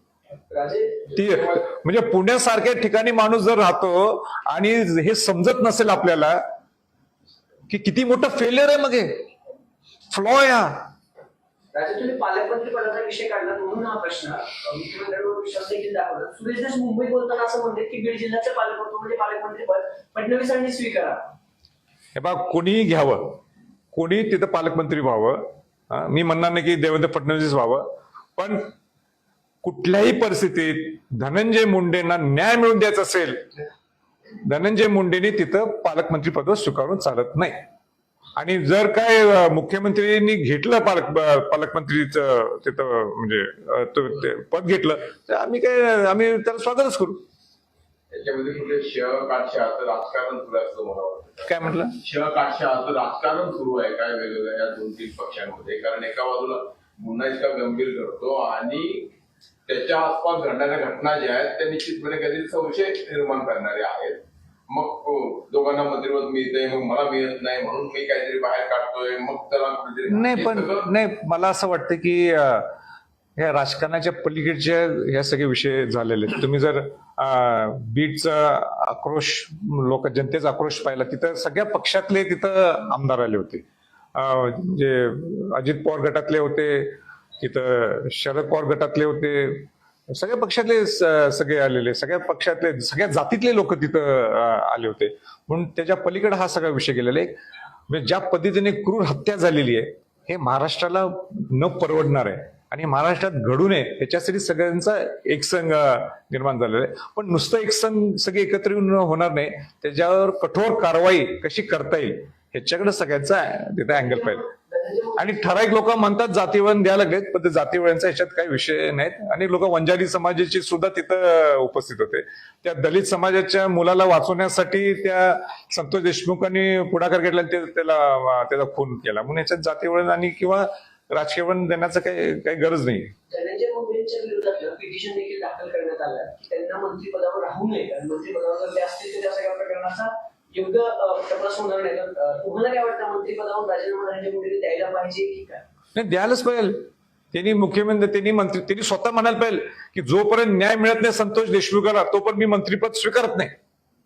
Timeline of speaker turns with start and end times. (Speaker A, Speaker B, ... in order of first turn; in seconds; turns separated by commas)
Speaker A: 0.5-1.1, Speaker B: 1.1-6.4, Speaker B: 7.7-9.2, Speaker B: 10.1-10.8, Speaker A: 11.7-21.2, Speaker B: 22.1-23.4, Speaker B: 23.9-27.8, Speaker B: 28.4-28.7, Speaker B: 29.6-33.4, Speaker B: 34.4-37.6, Speaker B: 38.4-47.2, Speaker C: 48.1-59.1, Speaker B: 51.5-51.9, Speaker C: 59.7-70.9, Speaker B: 70.1-72.7, Speaker B: 73.4-83.6, Speaker B: 84.1-97.3, Speaker B: 97.9-114.4, Speaker A: 113.9-115.5, Speaker B: 115.2-133.1, Speaker A: 133.3-145.6, Speaker B: 145.9-153.5